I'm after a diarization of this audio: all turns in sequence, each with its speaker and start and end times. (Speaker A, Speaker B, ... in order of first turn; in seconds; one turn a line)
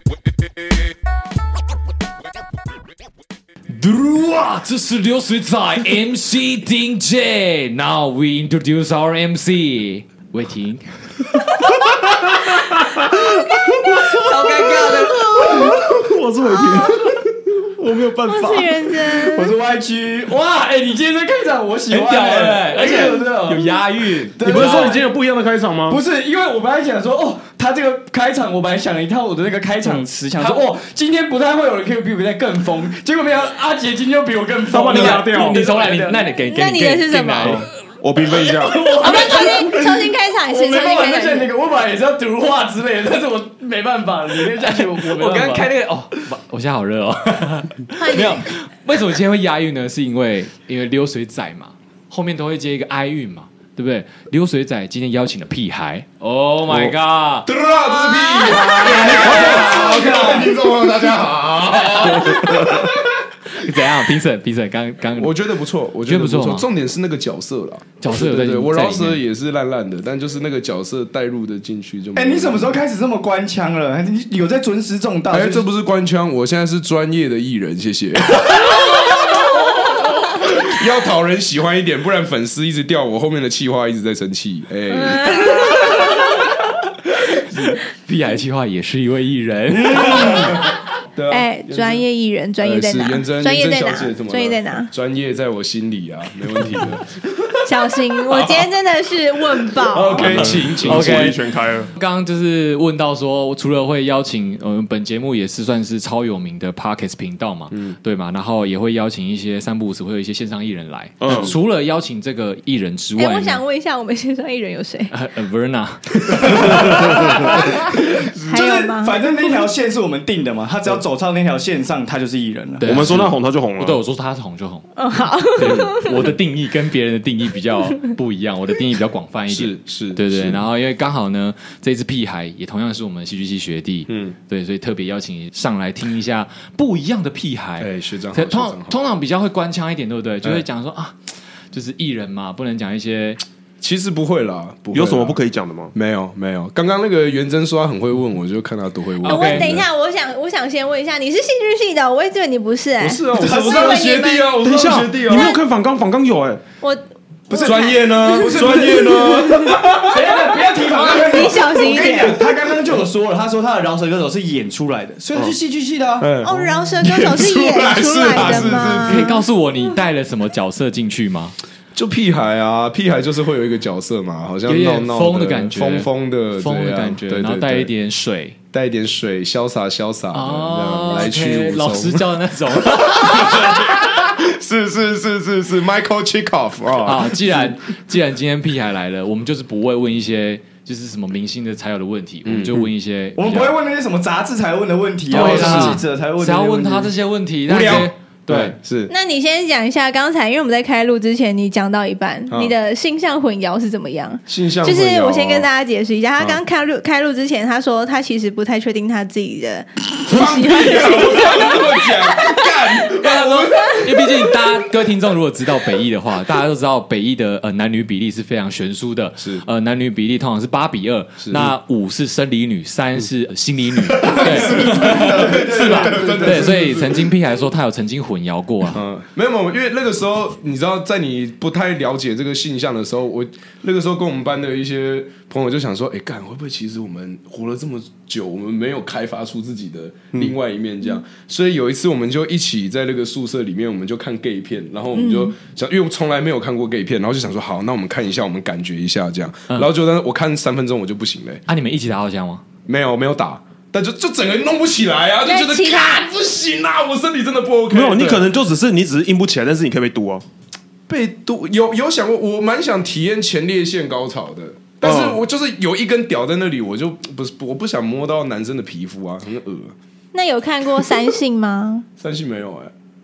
Speaker A: 3.7-11.5
Speaker B: 11.9-18.7
Speaker A: 14.2-15.2
Speaker C: 14.4-14.9
Speaker C: 18.2-19.5
Speaker D: 19.1-23.8
Speaker A: 21.9-24.9
Speaker D: 24.4-25.0
Speaker B: 24.4-26.0
Speaker D: 25.9-36.2
Speaker A: 29.9-30.6
Speaker B: 34.7-35.6
Speaker A: 34.9-37.6
Speaker C: 36.5-37.6
Speaker B: 37.5-38.9
Speaker D: 38.6-45.7
Speaker C: 39.0-41.5
Speaker A: 44.6-57.5
Speaker C: 48.0-48.4
Speaker E: 57.4-62.9
Speaker C: 58.0-58.7
Speaker A: 58.8-60.4
Speaker D: 58.9-60.5
Speaker A: 62.0-62.9
Speaker A: 63.5-65.4
Speaker E: 65.2-72.8
Speaker A: 66.0-66.7
Speaker A: 68.0-69.2
Speaker D: 72.1-75.7
Speaker E: 75.3-78.7
Speaker E: 80.4-85.7
Speaker C: 84.9-86.2
Speaker A: 87.5-90.5
Speaker E: 89.8-92.0
Speaker C: 90.0-90.6
Speaker C: 91.3-94.9
Speaker E: 92.6-97.0
Speaker C: 97.6-100.5
Speaker E: 98.3-98.7
Speaker E: 99.7-101.3
Speaker B: 100.2-101.9
Speaker A: 100.2-101.4
Speaker A: 102.0-113.6
Speaker B: 111.2-111.5
Speaker C: 113.2-115.1
Speaker A: 115.1-117.4
Speaker D: 116.3-117.9
Speaker C: 117.1-117.7
Speaker C: 118.4-119.3
Speaker D: 118.4-122.9
Speaker A: 122.8-125.0
Speaker B: 122.8-124.0
Speaker C: 125.0-126.3
Speaker A: 125.5-141.1
Speaker E: 129.5-130.6
Speaker E: 134.1-134.3
Speaker E: 137.8-138.9
Speaker A: 141.7-143.4
Speaker E: 143.8-145.4
Speaker B: 144.9-145.9
Speaker E: 145.9-149.8
Speaker A: 149.2-149.7
Speaker C: 149.2-154.5
Speaker E: 153.0-155.5
Speaker D: 153.4-153.9
Speaker B: 154.6-156.6
Speaker C: 155.3-155.6
Speaker C: 156.8-159.9
Speaker D: 157.5-166.3
Speaker E: 157.6-160.1
Speaker C: 161.0-162.4
Speaker E: 166.2-169.4
Speaker C: 166.4-169.3
Speaker A: 168.5-171.6
Speaker E: 171.9-177.9
Speaker A: 174.7-178.6
Speaker E: 178.7-182.3
Speaker A: 180.3-183.8
Speaker E: 182.9-187.7
Speaker A: 187.0-193.8
Speaker E: 192.4-192.9
Speaker D: 193.4-197.1
Speaker A: 195.3-198.7
Speaker E: 195.3-196.0
Speaker E: 197.7-199.1
Speaker C: 199.1-212.5
Speaker E: 202.5-202.7
Speaker E: 204.5-205.7
Speaker E: 210.3-214.1
Speaker A: 213.2-229.0
Speaker E: 219.4-219.6
Speaker E: 221.4-221.7
Speaker E: 224.2-227.3
Speaker D: 224.4-226.8
Speaker E: 228.9-251.6
Speaker C: 245.1-245.5
Speaker A: 251.7-252.6
Speaker E: 252.8-258.5
Speaker C: 255.4-256.2
Speaker B: 257.9-260.4
Speaker E: 261.1-269.9
Speaker B: 265.0-265.4
Speaker C: 270.3-272.1
Speaker E: 272.2-272.9